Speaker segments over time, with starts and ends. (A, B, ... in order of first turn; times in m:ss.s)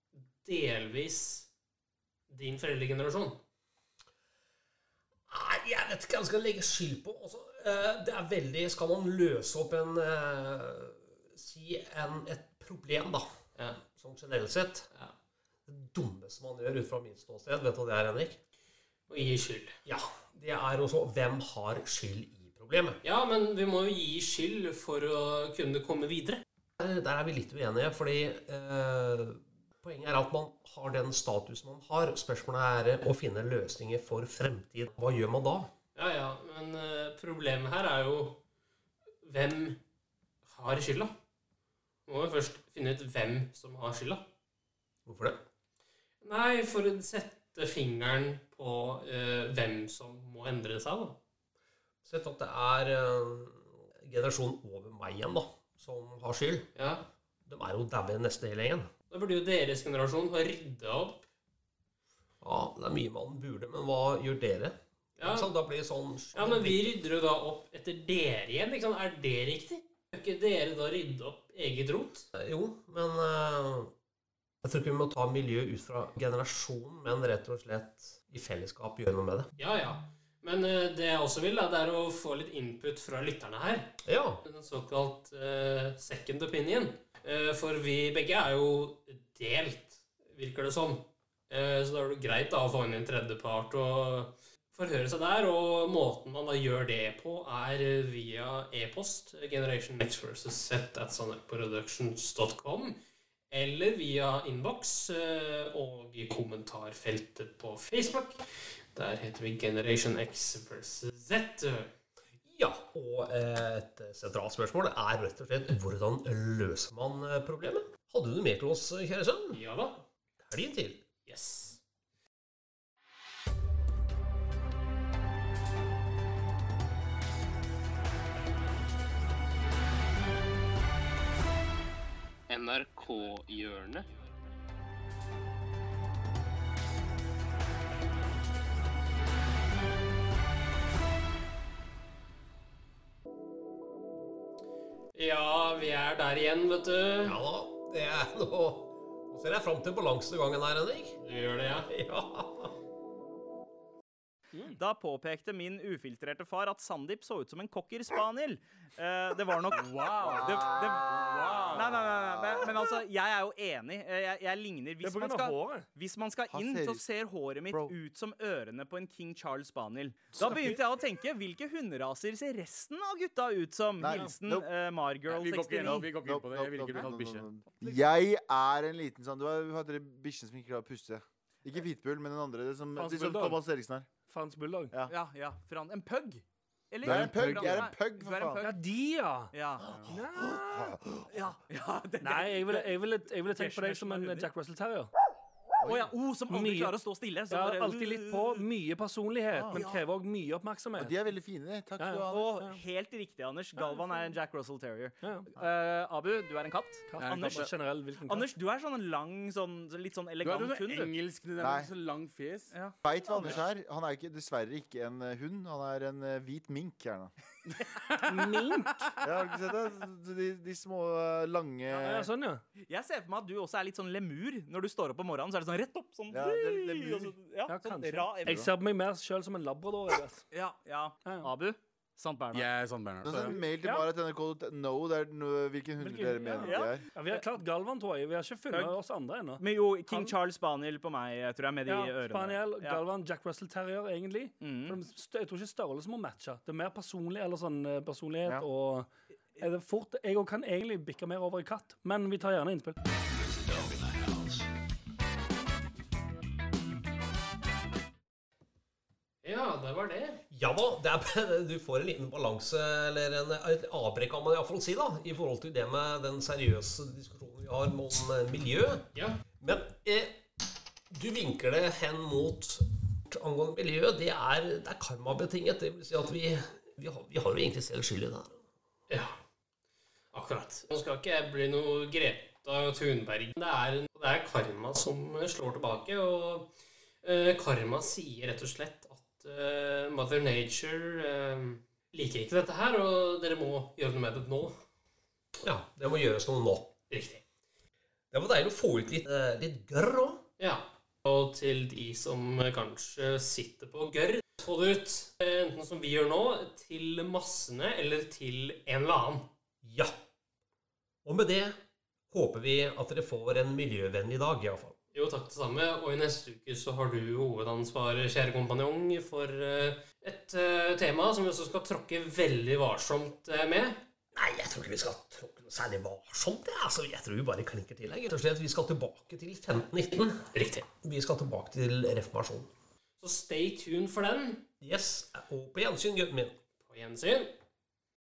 0:00.4-0:01.5 A
0:02.3-0:03.4 A
0:05.3-0:13.2 B
0:13.8-0:14.9 B
0:15.7-0:18.4 B
0:19.1-0:19.7 A
0:19.8-0:23.0 B
0:23.0-0:26.4 A
0:26.8-0:35.7 B
0:35.9-0:38.4 A
0:39.2-0:39.8 A
0:40.4-0:41.1 A
0:42.1-0:44.2 A
0:45.0-0:45.4 B
0:46.2-0:51.2 A
0:52.0-0:56.7 B
0:56.7-0:57.0 A
0:57.5-0:58.9 B
0:59.1-1:01.3 A
1:02.4-1:07.0 B
1:05.2-1:05.5 A
1:06.3-1:12.3 A
1:12.3-1:13.9 B
1:14.6-1:19.5 B
1:19.6-1:43.0 A
1:24.0-1:24.4 B
1:43.5-1:48.4 A
1:48.9-1:51.9 A
1:52.4-1:59.6 B
1:59.5-2:00.0 A
2:00.4-2:01.0 B
2:01.2-2:01.8 A
2:12.5-2:14.1 A
2:25.1-2:27.3 A
2:27.2-2:31.2 B
2:31.2-2:31.9 A
2:31.9-2:32.7 B
2:34.6-2:56.2 C
2:39.8-2:40.6 D
2:41.2-2:42.1 D
2:45.0-2:45.9 E
2:46.5-2:47.1 F
2:54.0-2:54.7 F
2:55.3-2:57.5 D
2:55.8-3:04.1 F
3:03.0-3:03.6 E
3:04.3-3:04.9 E
3:05.1-3:08.8 C
3:07.0-3:08.6 F
3:07.0-3:07.9 D
3:08.6-3:11.4 E
3:09.5-3:09.9 C
3:09.9-3:11.2 F
3:11.3-3:14.5 C
3:12.2-3:15.1 E
3:15.8-3:16.1 F
3:15.8-3:18.6 C
3:16.5-3:17.0 E
3:17.5-3:21.2 E
3:19.5-3:20.0 F
3:21.0-3:22.5 F
3:22.0-3:22.8 E
3:22.3-3:31.2 C
3:23.8-3:24.1 E
3:25.2-3:25.5 E
3:27.1-3:28.5 E
3:27.2-3:27.6 D
3:30.4-3:32.7 D
3:31.6-3:31.9 F
3:32.7-3:33.6 C
3:33.0-3:37.3 F
3:38.3-3:39.2 E
3:39.2-3:42.2 F
3:41.9-3:42.2 C
3:42.0-3:42.6 E
3:42.8-3:48.7 C
3:46.3-3:47.3 F
3:47.7-3:50.4 E
3:50.5-3:52.7 C
3:51.2-3:51.5 E
3:52.5-3:53.6 D
3:53.2-3:57.0 F
3:53.8-3:54.1 E
3:56.0-4:00.3 E
3:56.6-3:57.4 C
3:58.7-3:59.0 C
3:59.6-4:03.0 C
4:01.8-4:13.0 E
4:04.6-4:05.0 C
4:19.4-4:20.4 A
4:20.5-4:29.1 B
4:29.6-4:30.4 B
4:31.1-4:38.6 B
4:39.1-4:39.4 A
4:40.3-4:46.7 A
4:47.2-4:54.7 A
4:55.6-4:56.9 B
4:57.1-4:57.4 A
4:58.3-5:00.4 B
5:00.6-5:09.5 A
5:09.8-5:10.1 B
5:11.2-5:11.7 B
5:12.3-5:14.9 B
5:15.1-5:24.0 A
5:24.3-5:30.4 B
5:30.5-5:30.9 A
5:30.9-5:32.7 B
5:33.2-5:34.6 A
5:34.8-5:36.5 B
5:36.8-5:37.5 A